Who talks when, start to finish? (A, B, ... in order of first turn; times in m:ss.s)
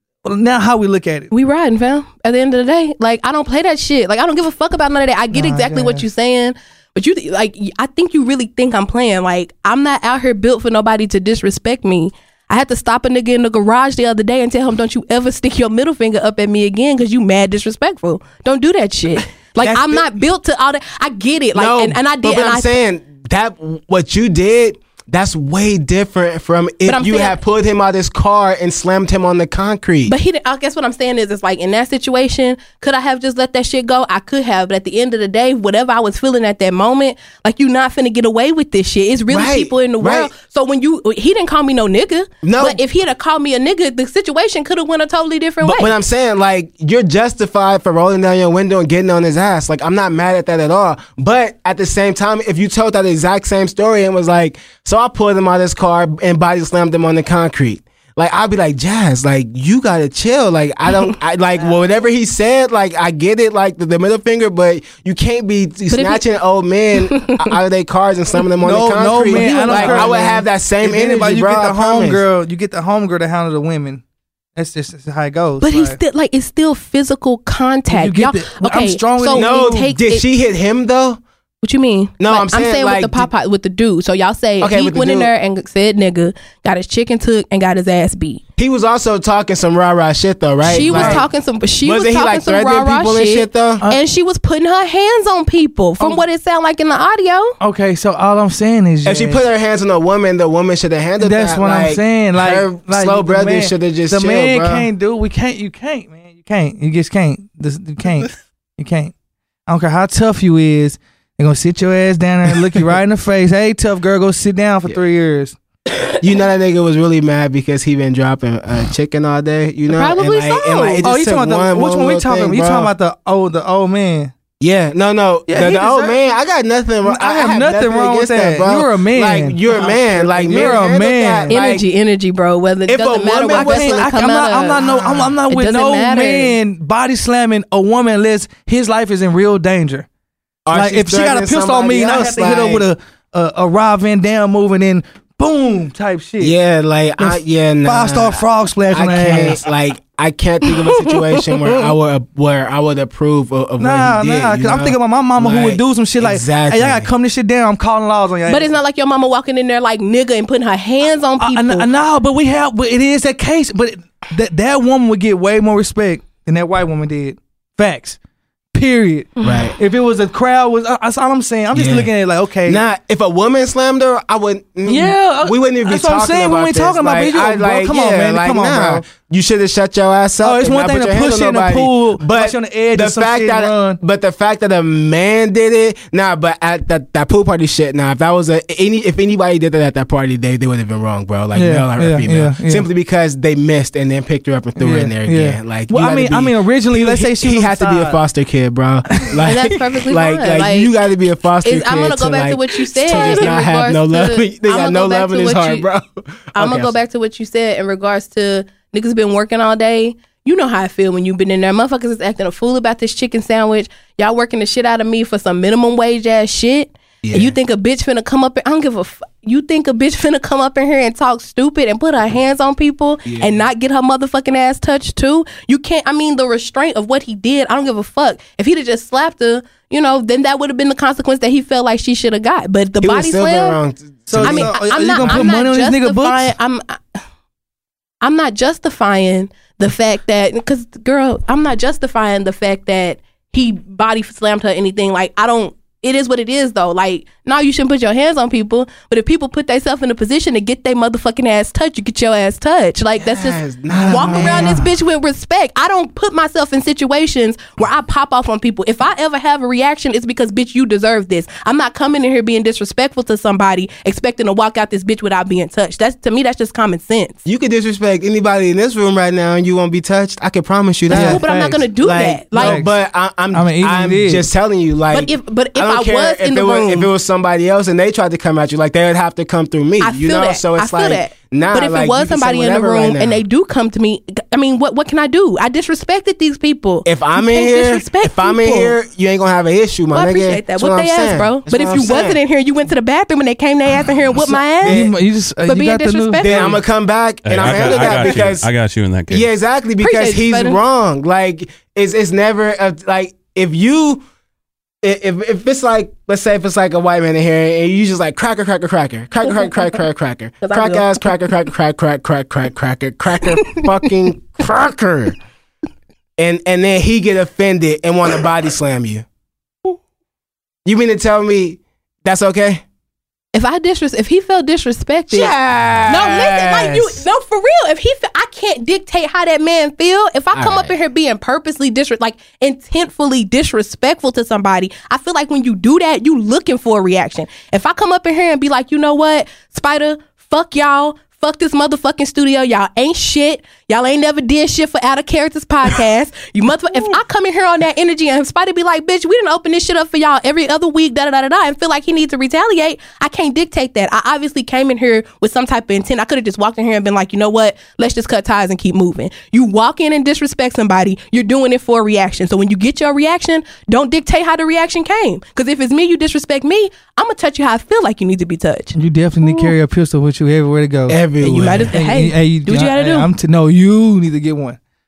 0:00.2-0:01.3 A
0:01.3-0:22.7 B
0:05.3-0:06.0 A
0:19.6-0:20.0 C
0:21.5-0:30.1 C
0:26.8-0:27.4 B
0:30.1-0:45.9 B
0:39.3-0:40.3 C
0:42.4-0:42.8 C
0:45.6-1:12.2 C
1:05.9-1:06.2 B
1:07.0-1:07.5 B
1:08.6-1:14.0 A
1:09.2-1:10.4 B
1:14.6-1:16.0 A
1:15.6-1:20.2 B
1:17.9-1:19.8 A
1:19.3-1:21.2 C
1:21.6-1:28.4 B
1:22.2-1:23.3 C
1:24.6-1:25.3 C
1:28.6-1:31.3 C
1:30.6-1:37.6 B
1:30.8-1:31.2 A
1:31.8-1:33.8 C
1:37.6-1:39.4 A
1:39.0-1:44.9 C
1:41.2-1:49.1 A
1:49.7-1:55.6 A
1:56.2-2:02.9 C
1:59.9-2:01.0 B
2:01.0-2:04.3 A
2:04.6-2:11.8 C
2:05.5-2:06.2 A
2:07.0-2:11.5 A
2:11.5-2:14.8 B
2:12.9-2:14.1 C
2:13.5-2:20.1 A
2:14.8-2:15.3 C
2:15.5-2:16.5 B
2:20.6-2:22.9 C
2:20.7-2:26.5 A
2:26.4-2:37.1 C
2:27.2-2:29.6 A
2:33.8-2:38.7 A
2:38.5-2:41.9 B
2:41.4-2:48.2 A
2:48.7-2:52.8 A
2:49.4-2:49.7 B
2:49.4-2:49.8 C
2:51.7-2:52.1 C
2:52.6-3:27.0 C
2:54.8-2:59.0 A
3:00.4-3:04.0 A
3:11.5-3:12.8 A
3:14.8-3:18.2 A
3:19.1-3:19.4 A
3:19.4-3:20.9 B
3:21.6-3:25.8 B
3:23.1-3:23.4 A
3:26.6-3:53.8 B
3:37.2-3:37.5 C
3:43.2-3:43.6 C
3:53.0-3:55.4 C
3:54.3-3:56.5 A
3:54.4-3:57.2 B
3:58.2-4:27.4 B
4:13.2-4:14.8 C
4:13.9-4:14.9 A
4:27.4-4:31.4 C
4:31.1-4:32.8 B
4:31.1-4:32.9 A
4:32.5-4:43.4 C
4:33.5-4:34.5 A
4:35.1-4:37.1 B
4:40.0-4:48.9 B
4:47.0-4:52.4 C
4:50.1-4:55.1 B
4:54.4-4:56.6 A
4:54.8-4:55.1 C
4:55.6-4:56.8 B
4:56.4-4:58.7 C
4:57.4-4:59.5 D
4:59.3-5:04.2 C
5:00.0-5:00.8 B
5:05.0-5:15.4 C
5:10.6-5:11.2 B
5:13.6-5:13.8 B
5:16.4-5:19.2 C
5:20.8-5:22.8 C
5:23.5-5:25.5 B
5:25.3-5:27.2 C
5:26.1-6:09.7 B
5:30.5-5:30.9 C
6:08.9-6:11.2 A
6:11.1-6:11.9 C
6:11.4-6:13.3 B
6:11.9-6:14.8 A